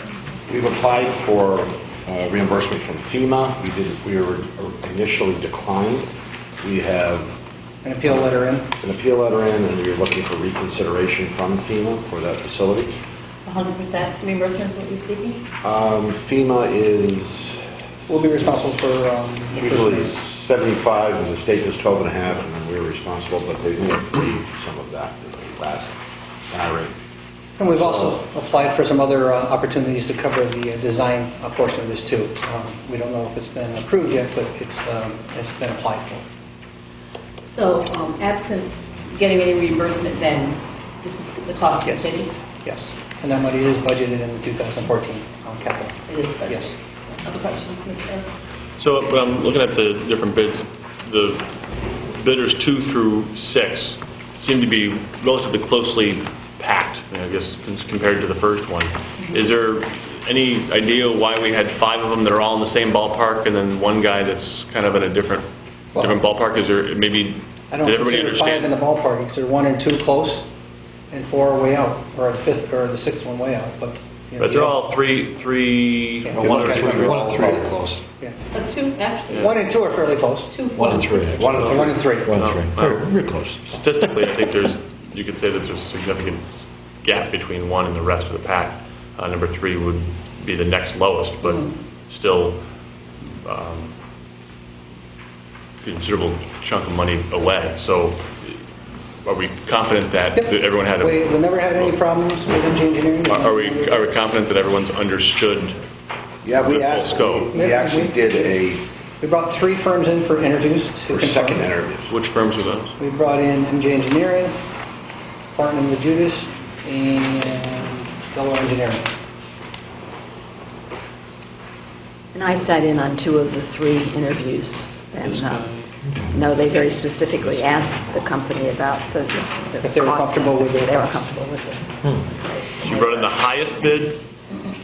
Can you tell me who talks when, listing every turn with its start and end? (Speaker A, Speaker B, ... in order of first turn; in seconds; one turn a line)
Speaker A: 0.5-6.1
Speaker A: 6.6-7.3
Speaker B: 7.8-8.7
Speaker A: 8.8-12.9
Speaker C: 13.4-15.4
Speaker A: 15.6-17.6
Speaker B: 18.1-20.1
Speaker A: 18.3-18.6
Speaker A: 19.5-26.0
Speaker A: 26.5-26.9
Speaker B: 27.6-36.2
Speaker A: 27.7-28.1
Speaker C: 37.5-42.3
Speaker B: 42.6-46.8
Speaker C: 46.1-48.3
Speaker D: 48.8-51.5
Speaker D: 52.1-68.7
Speaker B: 67.7-70.5
Speaker B: 71.1-74.8
Speaker D: 74.4-77.6
Speaker B: 76.2-78.4
Speaker E: 76.3-78.0
Speaker C: 78.5-79.5
Speaker B: 79.3-80.5
Speaker C: 80.5-81.5
Speaker E: 80.7-83.6
Speaker A: 81.3-81.9
Speaker D: 81.4-83.1
Speaker B: 81.7-82.4
Speaker D: 83.6-92.6
Speaker C: 91.4-91.7
Speaker D: 93.4-93.9
Speaker D: 95.8-98.6
Speaker D: 99.2-101.9
Speaker B: 100.3-104.1
Speaker D: 103.3-105.8
Speaker A: 106.4-108.8
Speaker D: 106.7-107.5
Speaker B: 107.5-108.6
Speaker B: 109.2-111.7
Speaker A: 111.1-112.1
Speaker D: 112.1-112.9
Speaker B: 113.0-114.6
Speaker B: 115.5-119.1
Speaker F: 122.3-125.7
Speaker D: 125.2-125.9
Speaker F: 126.3-133.2
Speaker D: 127.3-128.0
Speaker B: 129.8-131.3
Speaker D: 132.8-134.2